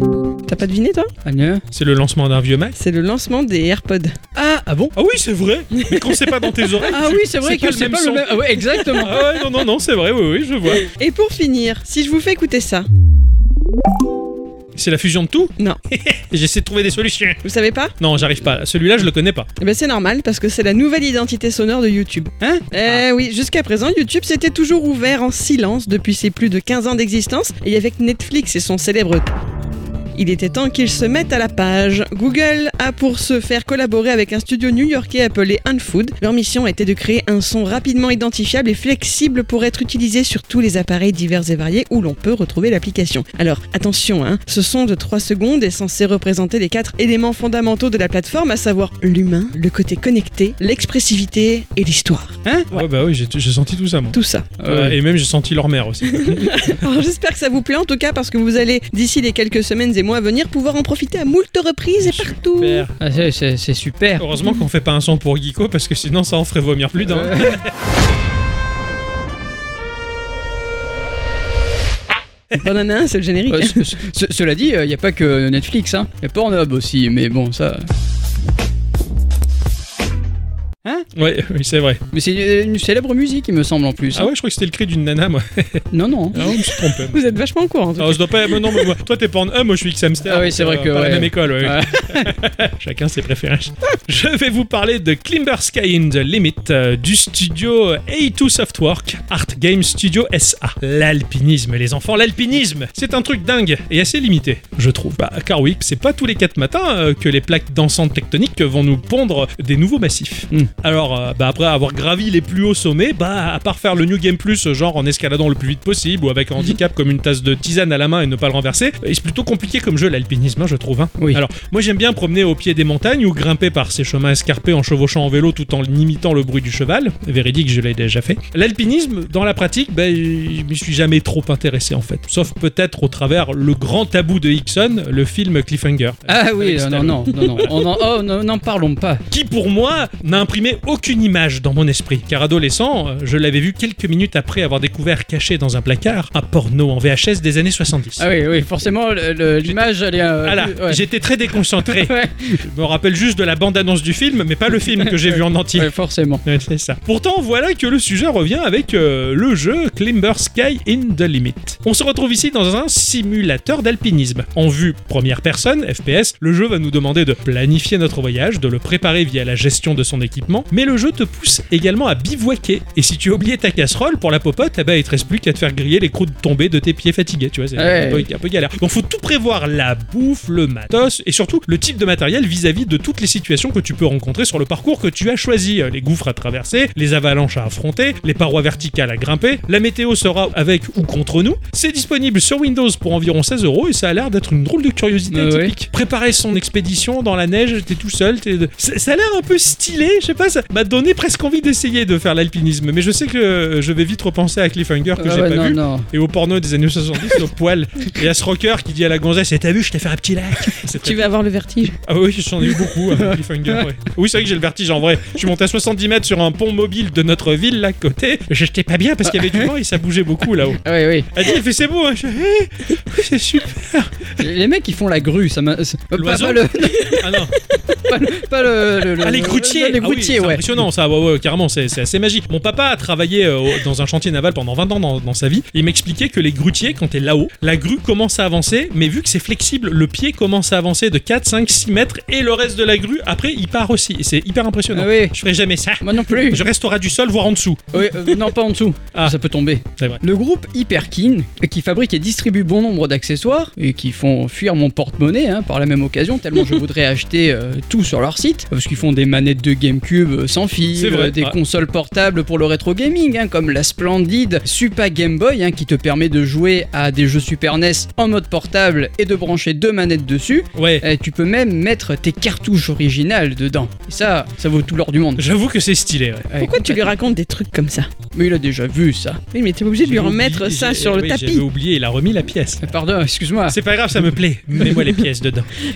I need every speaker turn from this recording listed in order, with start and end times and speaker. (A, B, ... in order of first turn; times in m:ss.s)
0:00.5-0:01.1 A
0:01.2-0:01.6 B
0:01.7-0:02.8 C
0:02.8-0:04.2 A
0:04.4-0:04.9 B
0:05.0-0:10.8 C
0:05.7-0:06.7 A
0:06.9-0:09.1 B
0:10.8-0:12.9 A
0:14.8-0:17.4 C
0:17.4-0:17.9 A
0:18.0-0:19.5 C
0:19.6-0:29.3 A
0:22.4-0:23.0 B
0:30.2-0:52.8 A
0:52.4-0:52.7 B
0:52.7-0:56.8 C
0:54.1-0:54.5 A
0:54.6-0:55.0 B
0:56.1-1:02.9 A
1:02.0-1:03.0 C
1:03.0-1:04.2 B
1:04.2-1:07.7 C
1:07.0-1:07.6 B
1:12.6-1:13.9 A
1:13.5-1:17.9 B
1:21.1-1:22.0 C
1:22.1-1:24.3 B
1:24.1-1:27.2 C
1:25.9-1:26.4 B
1:27.1-1:28.9 A
1:28.0-2:17.8 C
1:30.2-1:32.4 B
2:16.3-2:19.2 B
2:19.3-2:28.2 C
2:28.2-2:31.0 B
2:30.4-2:35.9 C
2:31.9-2:32.6 B
2:34.9-2:36.4 B
2:36.4-3:31.3 C
2:57.8-2:58.3 B
3:15.3-3:15.8 B
3:25.2-3:26.1 B
3:31.0-3:32.0 A
3:32.0-3:40.8 C
3:33.1-3:33.8 B
3:39.2-3:39.7 B
3:40.8-3:41.3 B
3:41.3-3:44.3 C
3:44.4-3:47.2 B
3:46.1-3:47.6 C
3:48.1-3:50.7 B
3:49.1-4:07.9 C
4:04.9-4:05.4 B
4:06.0-4:06.6 B
4:07.9-4:35.5 B
4:21.0-4:21.6 C
4:30.8-4:31.0 C
4:35.4-4:36.5 C
4:36.5-4:37.1 B
4:36.6-4:38.1 A
4:38.3-4:39.4 B
4:39.5-4:41.6 A
4:40.0-4:42.9 C
4:42.8-4:43.8 B
4:43.7-4:45.7 C